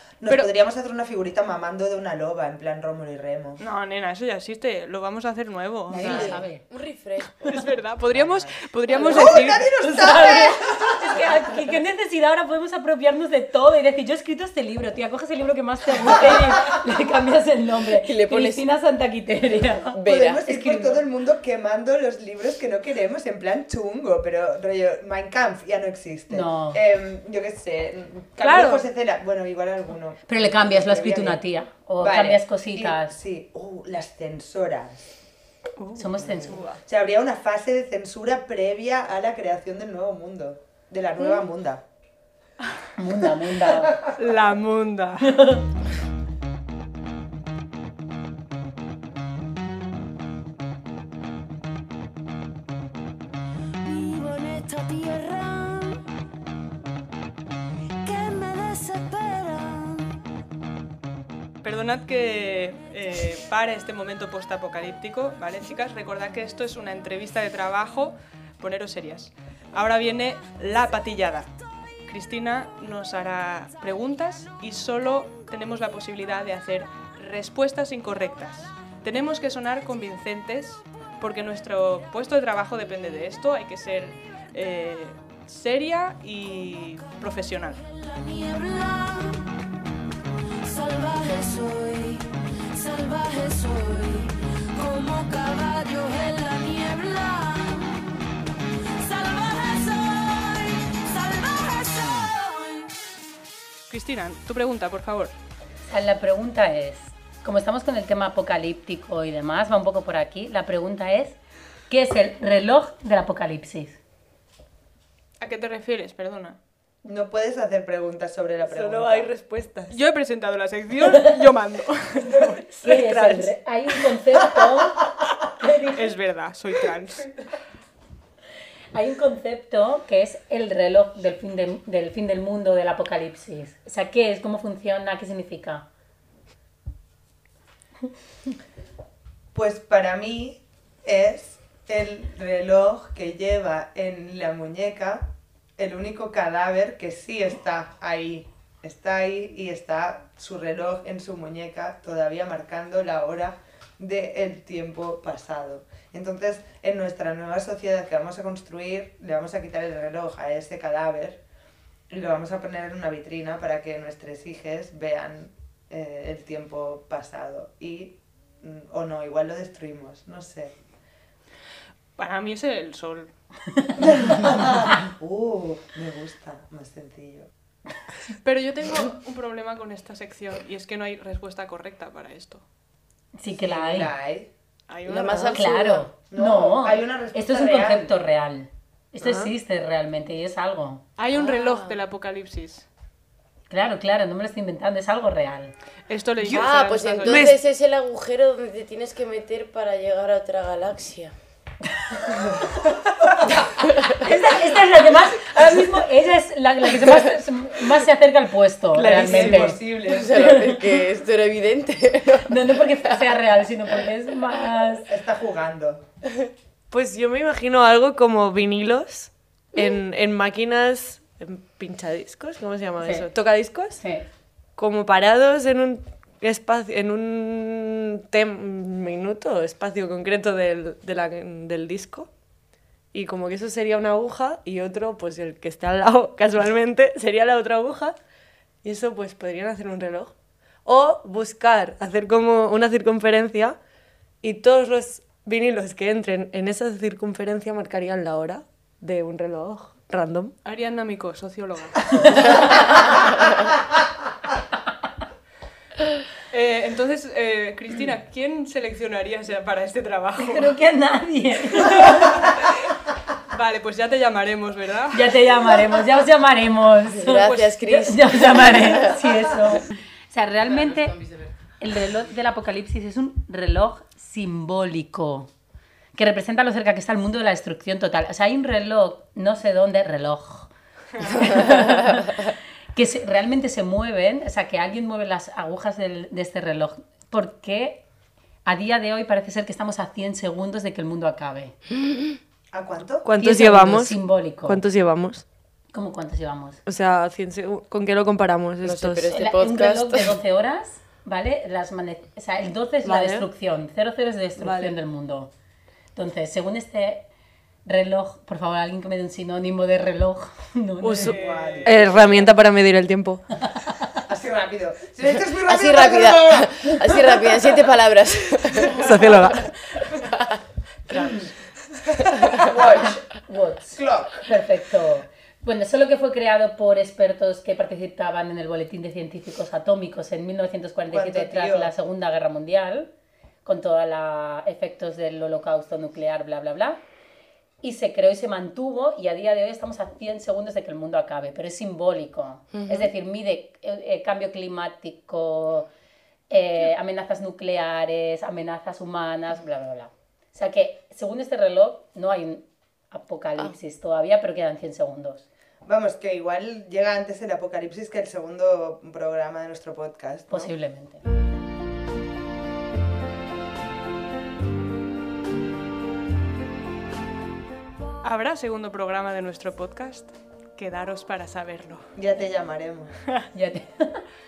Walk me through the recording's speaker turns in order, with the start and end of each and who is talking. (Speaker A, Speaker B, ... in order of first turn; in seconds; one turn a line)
Speaker A: 0.2-3.6
Speaker B: 3.6-6.4
Speaker C: 5.9-6.6
Speaker D: 6.0-7.7
Speaker B: 7.5-9.7
Speaker A: 8.1-11.6
Speaker D: 8.9-9.4
Speaker C: 9.8-20.0
Speaker D: 18.0-18.6
Speaker D: 19.9-20.5
Speaker A: 20.0-31.4
Speaker C: 26.3-26.8
Speaker B: 28.4-28.9
Speaker C: 30.3-33.2
Speaker A: 32.0-35.1
Speaker B: 35.8-36.7
Speaker C: 36.0-36.6
Speaker A: 36.2-41.8
Speaker C: 43.0-44.0
Speaker A: 43.7-44.2
Speaker B: 44.2-45.6
Speaker E: 53.8-56.0
Speaker E: 58.0-60.1
Speaker B: 61.6-71.5
Speaker B: 72.1-87.8
Speaker E: 87.8-89.5
Speaker E: 90.6-98.2
Speaker E: 99.0-103.0
Speaker B: 103.9-105.3
Speaker C: 105.9-111.4
Speaker C: 111.9-114.0
Speaker B: 115.4-116.6
Speaker A: 117.0-119.3
Speaker F: 118.6-120.0
Speaker B: 119.9-122.6
Speaker F: 122.4-123.5
Speaker C: 122.8-125.0
Speaker C: 125.6-126.2
Speaker B: 126.0-127.3
Speaker C: 128.9-135.9
Speaker A: 139.5-161.4
Speaker A: 162.1-170.8
Speaker B: 172.2-173.3
Speaker A: 174.0-177.5
Speaker B: 178.4-182.6
Speaker C: 183.4-184.1
Speaker A: 183.6-184.5
Speaker B: 184.9-185.6
Speaker D: 185.1-186.1
Speaker C: 185.5-191.1
Speaker A: 186.3-188.1
Speaker F: 189.2-189.5
Speaker B: 191.2-192.9
Speaker D: 191.3-192.0
Speaker C: 193.7-195.7
Speaker B: 196.1-197.6
Speaker F: 196.4-196.7
Speaker D: 196.5-201.3
Speaker F: 197.2-197.6
Speaker D: 203.6-204.2
Speaker C: 204.2-211.1
Speaker F: 208.9-209.8
Speaker A: 209.0-210.5
Speaker D: 209.9-213.4
Speaker C: 212.4-215.1
Speaker A: 215.1-216.0
Speaker F: 216.9-224.0
Speaker C: 223.0-223.3
Speaker C: 224.0-224.3
Speaker F: 224.8-232.3
Speaker F: 233.1-238.2
Speaker F: 238.8-240.3
Speaker F: 240.8-243.8
Speaker F: 244.4-250.5
Speaker B: 250.7-252.6
Speaker C: 252.2-252.6
Speaker B: 256.5-260.7
Speaker C: 260.4-262.6
Speaker B: 261.9-262.7
Speaker B: 263.5-265.3
Speaker C: 265.1-271.2
Speaker D: 267.1-269.2
Speaker B: 267.4-267.8
Speaker C: 271.8-275.5
Speaker C: 276.1-282.4
Speaker B: 281.1-281.6
Speaker C: 282.9-288.0
Speaker C: 288.6-291.8
Speaker A: 292.7-293.3
Speaker F: 293.2-295.4
Speaker C: 293.4-294.8
Speaker C: 295.9-296.8
Speaker F: 296.9-299.3
Speaker D: 298.8-300.4
Speaker C: 299.3-305.5
Speaker F: 303.1-303.5
Speaker F: 304.6-304.9
Speaker C: 306.2-307.3
Speaker C: 307.9-311.4
Speaker F: 311.0-313.4
Speaker B: 311.2-312.5
Speaker A: 311.3-312.2
Speaker A: 314.3-317.8
Speaker D: 315.6-319.7
Speaker F: 318.9-319.6
Speaker A: 321.1-323.2
Speaker C: 323.3-333.1
Speaker A: 323.9-324.4
Speaker A: 331.1-331.9
Speaker C: 333.6-337.0
Speaker C: 337.8-345.9
Speaker D: 342.7-343.1
Speaker C: 346.5-355.5
Speaker A: 355.9-360.7
Speaker C: 360.5-361.2
Speaker B: 368.2-372.1
Speaker A: 372.1-373.2
Speaker C: 373.5-374.2